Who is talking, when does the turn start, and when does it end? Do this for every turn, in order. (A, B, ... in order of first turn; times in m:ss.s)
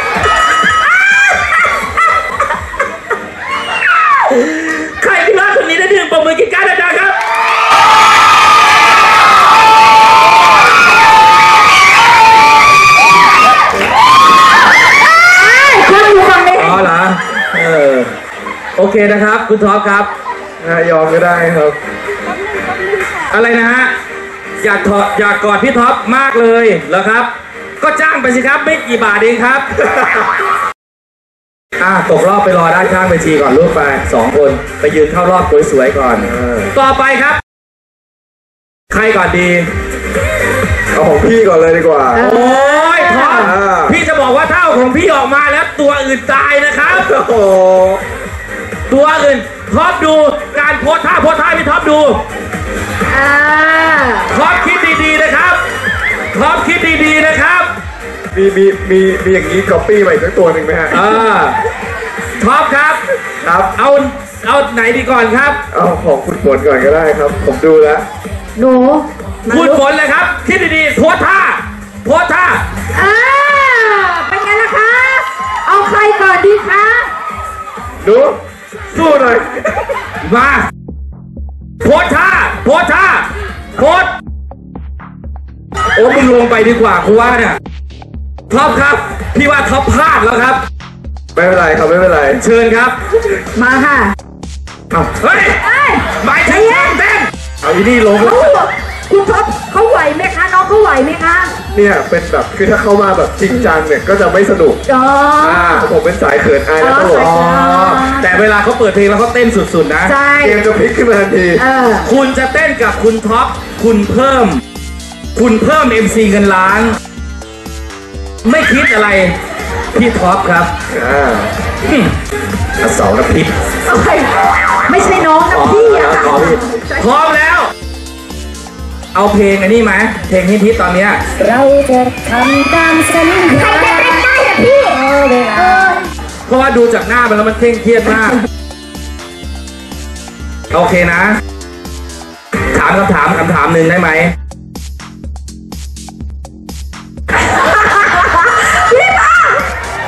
0:04.3-0:07.2 A
0:15.2-0:16.9 B
0:16.5-0:18.1 A
0:18.8-0:20.1 A
0:20.6-0:21.8 C
0:23.3-0:23.9 A
0:24.6-0:29.6 A
0:31.8-0:37.4 A
0:36.2-0:36.7 C
0:38.9-0:39.7 A
0:40.9-0:42.3 C
0:42.1-0:43.5 B
0:42.2-0:47.1 A
0:43.3-0:44.0 C
0:46.9-0:48.0 C
0:48.9-0:52.2 A
0:53.1-0:54.3 B
0:54.3-0:55.6 A
0:56.3-0:57.7 A
0:58.3-1:01.0 C
1:00.9-1:01.6 A
1:02.4-1:03.0 A
1:03.4-1:03.7 C
1:03.7-1:05.6 A
1:05.7-1:08.0 C
1:08.6-1:09.8 B
1:09.5-1:12.6 A
1:13.0-1:17.1 B
1:18.0-1:18.4 C
1:18.9-1:19.9 C
1:20.2-1:20.7 A
1:21.8-1:24.1 A
1:25.9-1:27.6 A
1:28.5-1:30.6 A
1:31.4-1:32.4 C
1:32.4-1:33.0 A
1:33.6-1:34.2 B
1:34.9-1:35.6 A
1:35.6-1:37.0 B
1:36.1-1:38.5 A
1:38.2-1:41.5 B
1:41.7-1:44.8 C
1:44.9-1:45.9 B
1:45.4-1:47.4 C
1:46.8-1:48.4 B
1:47.2-1:50.1 A
1:50.1-1:50.6 B
1:50.4-1:51.6 C
1:51.6-1:52.1 B
1:52.0-1:54.6 A
1:55.4-1:57.0 A
1:58.4-1:59.4 A
1:59.9-2:00.7 A
2:00.9-2:01.5 C
2:01.8-2:02.1 A
2:02.8-2:03.5 A
2:03.9-2:07.0 B
2:05.5-2:07.7 A
2:09.1-2:11.2 A
2:11.4-2:16.0 D
2:13.4-2:15.0 B
2:15.5-2:15.9 B
2:16.5-2:18.4 A
2:20.7-2:21.4 A
2:22.7-2:24.3 A
2:27.8-2:29.6 B